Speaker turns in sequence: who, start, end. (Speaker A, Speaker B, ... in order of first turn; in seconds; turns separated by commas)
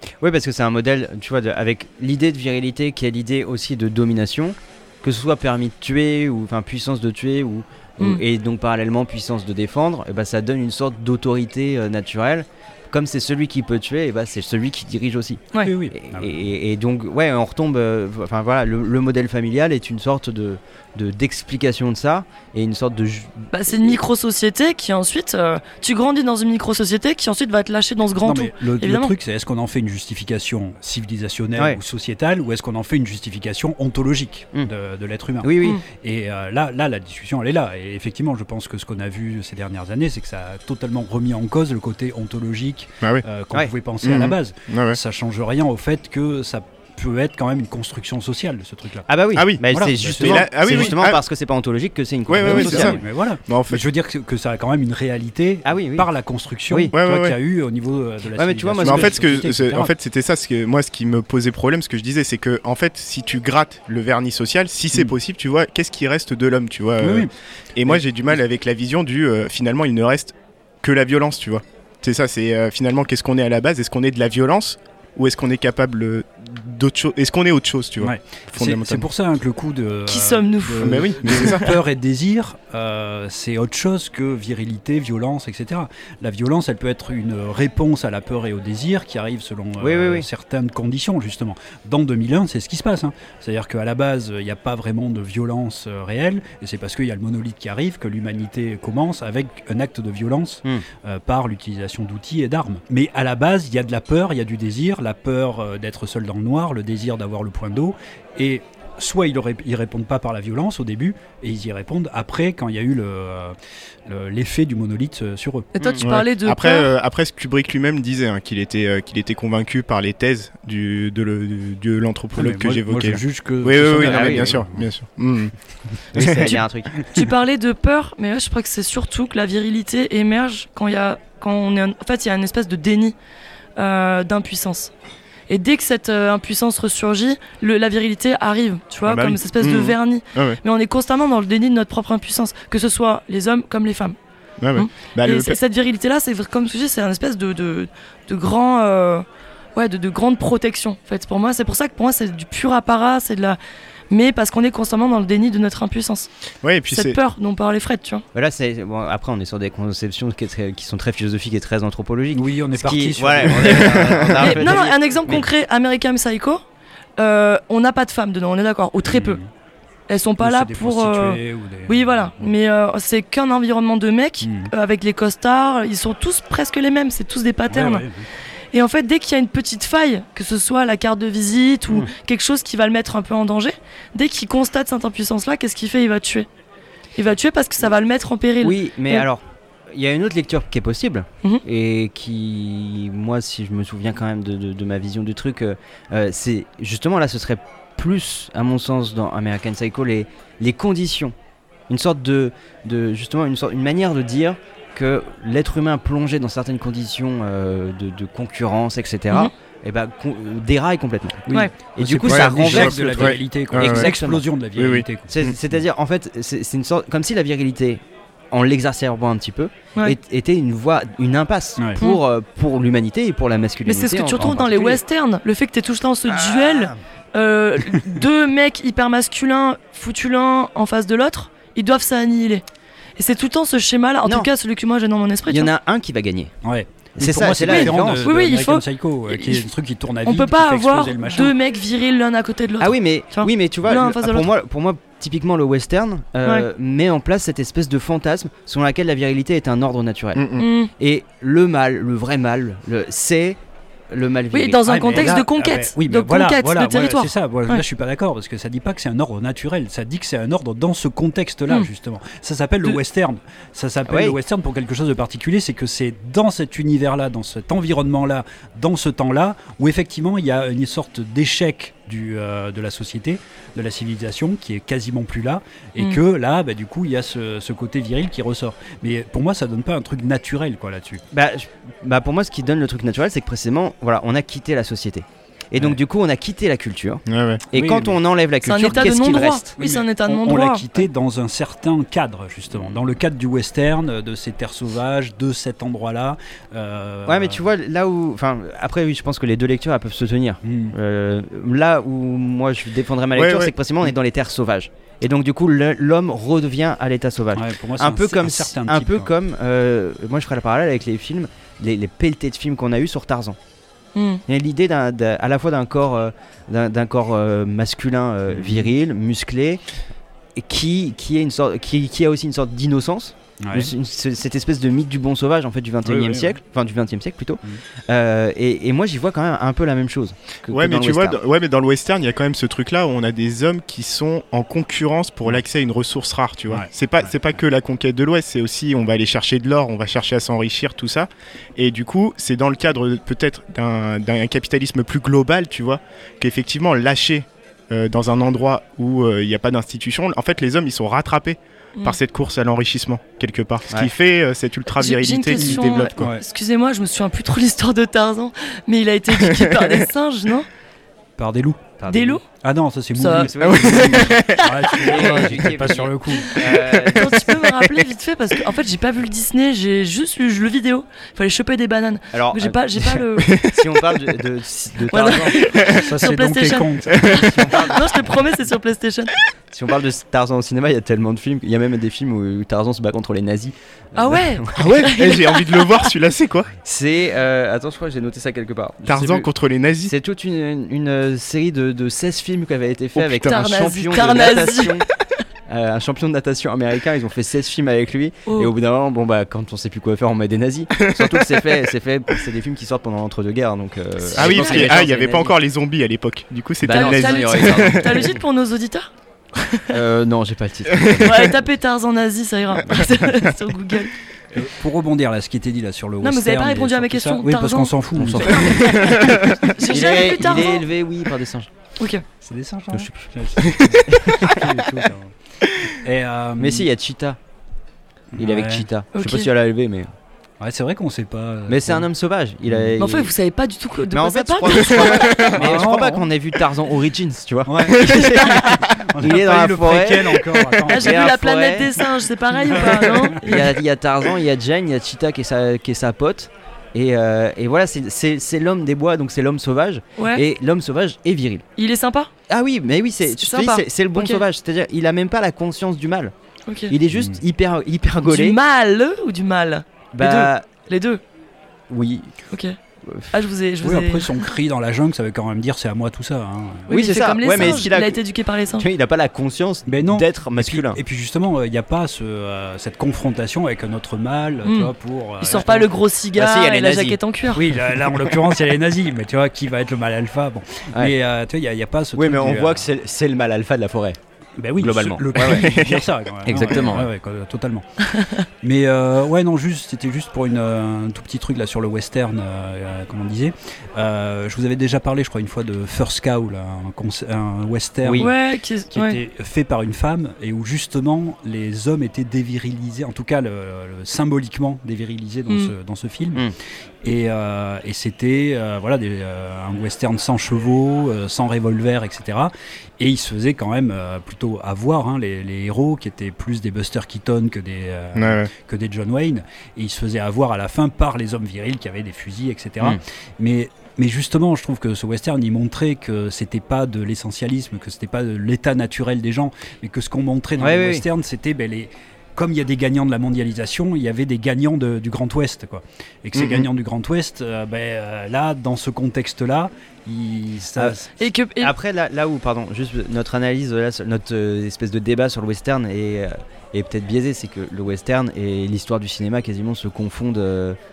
Speaker A: 0.2-24.0, Speaker B: 15.6-16.3, Speaker C: 23.5-29.1, Speaker B: 28.2-49.0, Speaker A: 35.4-35.8, Speaker D: 44.0-45.0, Speaker A: 49.1-53.0, Speaker D: 49.3-51.2, Speaker B: 49.6-50.9, Speaker D: 52.3-53.8, Speaker B: 52.4-59.9, Speaker A: 55.6-56.1, Speaker D: 56.9-57.4, Speaker A: 58.4-59.2, Speaker D: 58.8-79.1, Speaker B: 67.0-67.3, Speaker B: 67.8-68.4, Speaker B: 78.0-113.5, Speaker C: 80.1-81.7, Speaker D: 80.8-81.7, Speaker A: 89.8-90.2, Speaker B: 114.1-115.7, Speaker C: 115.8-116.9, Speaker D: 116.0-126.5, Speaker B: 122.3-124.9, Speaker A: 124.0-124.5, Speaker A: 126.1-126.9, Speaker C: 126.4-133.1, Speaker C: 133.8-134.9, Speaker C: 135.5-144.1, Speaker D: 139.1-140.6, Speaker D: 144.6-145.6, Speaker C: 144.7-153.6, Speaker C: 154.1-156.3, Speaker D: 156.6-157.2, Speaker C: 156.9-158.2, Speaker A: 158.3-165.5, Speaker B: 162.3-164.8, Speaker D: 163.7-164.2, Speaker C: 164.4-166.6, Speaker C: 167.2-169.4, Speaker B: 169.0-169.5, Speaker C: 170.1-178.0, Speaker B: 170.4-172.5, Speaker B: 174.4-174.7, Speaker B: 177.7-178.3, Speaker C: 178.7-186.5, Speaker C: 187.2-189.2, Speaker A: 188.6-201.3, Speaker A: 201.9-214.4, Speaker B: 211.5-215.3, Speaker D: 212.3-214.1, Speaker D: 214.8-215.6, Speaker A: 215.3-225.0, Speaker C: 223.8-232.6, Speaker A: 226.3-227.0, Speaker C: 233.2-235.7, Speaker A: 235.5-236.5, Speaker B: 236.6-241.5, Speaker A: 237.2-238.3, Speaker C: 237.7-239.6, Speaker C: 240.2-244.5, Speaker A: 242.8-253.6, Speaker D: 250.3-250.7, Speaker C: 250.6-250.9, Speaker A: 254.1-255.3, Speaker C: 254.5-257.8, Speaker B: 254.8-281.2, Speaker A: 264.1-264.4, Speaker A: 281.3-289.6, Speaker D: 287.2-287.6, Speaker B: 287.7-288.2, Speaker C: 288.6-291.0, Speaker B: 289.8-297.6, Speaker A: 297.2-313.6, Speaker B: 300.6-300.9, Speaker D: 303.3-303.7, Speaker B: 307.5-309.3, Speaker C: 314.1-314.4, Speaker A: 314.5-319.8, Speaker B: 318.5-318.9, Speaker A: 320.6-331.4, Speaker B: 323.6-323.9, Speaker B: 326.0-326.5, Speaker D: 330.7-356.3, Speaker C: 354.9-360.7, Speaker B: 355.6-356.4, Speaker D: 359.4-359.9, Speaker B: 361.4-361.8, Speaker A: 362.0-362.4, Speaker C: 362.1-362.4, Speaker B: 362.6-366.5, Speaker C: 363.2-365.4, Speaker A: 363.3-367.6, Speaker D: 363.6-364.6, Speaker C: 366.5-373.6, Speaker D: 367.1-368.0, Speaker A: 372.3-372.8, Speaker D: 373.4-374.2, Speaker A: 373.6-375.6, Speaker C: 375.1-379.4, Speaker D: 375.7-376.0, Speaker B: 375.9-377.8, Speaker A: 377.6-378.3, Speaker A: 379.7-384.9, Speaker C: 384.1-386.1, Speaker D: 384.8-386.7, Speaker A: 386.8-389.5, Speaker D: 389.1-390.1, Speaker A: 390.1-395.1, Speaker D: 393.1-393.6, Speaker C: 393.4-395.0, Speaker A: 395.7-405.5, Speaker D: 401.0-401.9, Speaker C: 404.2-405.0, Speaker D: 404.3-408.3, Speaker A: 406.8-408.4, Speaker C: 406.8-409.9, Speaker A: 409.9-411.5, Speaker C: 411.2-414.1, Speaker D: 412.9-413.2, Speaker B: 414.5-418.8, Speaker C: 416.2-420.9, Speaker A: 418.1-419.2, Speaker D: 418.9-419.5, Speaker A: 419.9-421.7, Speaker C: 422.0-422.2, Speaker B: 422.4-426.9, Speaker A: 422.9-423.2, Speaker A: 424.1-424.6, Speaker A: 426.6-427.4, Speaker B: 428.3-428.9, Speaker A: 428.4-430.1, Speaker C: 429.1-429.5, Speaker B: 430.6-432.1, Speaker A: 431.7-433.3, Speaker B: 432.7-432.9, Speaker C: 433.0-435.5, Speaker A: 434.1-442.1, Speaker D: 435.1-435.5, Speaker B: 435.5-436.3, Speaker B: 437.6-438.2, Speaker C: 438.0-438.8, Speaker B: 438.9-441.4, Speaker C: 440.9-443.7, Speaker B: 442.7-443.3, Speaker A: 442.7-451.6, Speaker C: 450.2-450.4, Speaker C: 451.8-452.3, Speaker A: 452.5-456.3, Speaker C: 453.2-454.4, Speaker C: 456.7-456.9, Speaker A: 456.9-458.6, Speaker B: 457.1-457.4, Speaker C: 458.2-461.2, Speaker A: 460.1-460.7, Speaker A: 461.9-462.3, Speaker C: 462.5-462.8, Speaker A: 463.0-463.3, Speaker C: 463.3-464.5, Speaker B: 463.8-467.0, Speaker A: 466.9-468.2, Speaker C: 466.9-468.8, Speaker B: 467.6-467.9, Speaker A: 468.8-471.0, Speaker B: 469.9-475.7, Speaker C: 474.6-477.6, Speaker A: 475.5-477.2, Speaker B: 477.5-482.8, Speaker A: 478.1-478.5, Speaker A: 482.1-484.2, Speaker B: 484.6-487.9, Speaker A: 484.8-485.7, Speaker D: 485.4-486.1, Speaker A: 486.4-487.1, Speaker B: 488.6-498.3, Speaker A: 498.0-498.3, Speaker C: 498.2-499.2, Speaker B: 498.9-506.5, Speaker B: 507.0-541.1, Speaker D: 518.1-518.5, Speaker A: 530.6-531.0, Speaker C: 541.2-541.7, Speaker A: 541.6-550.8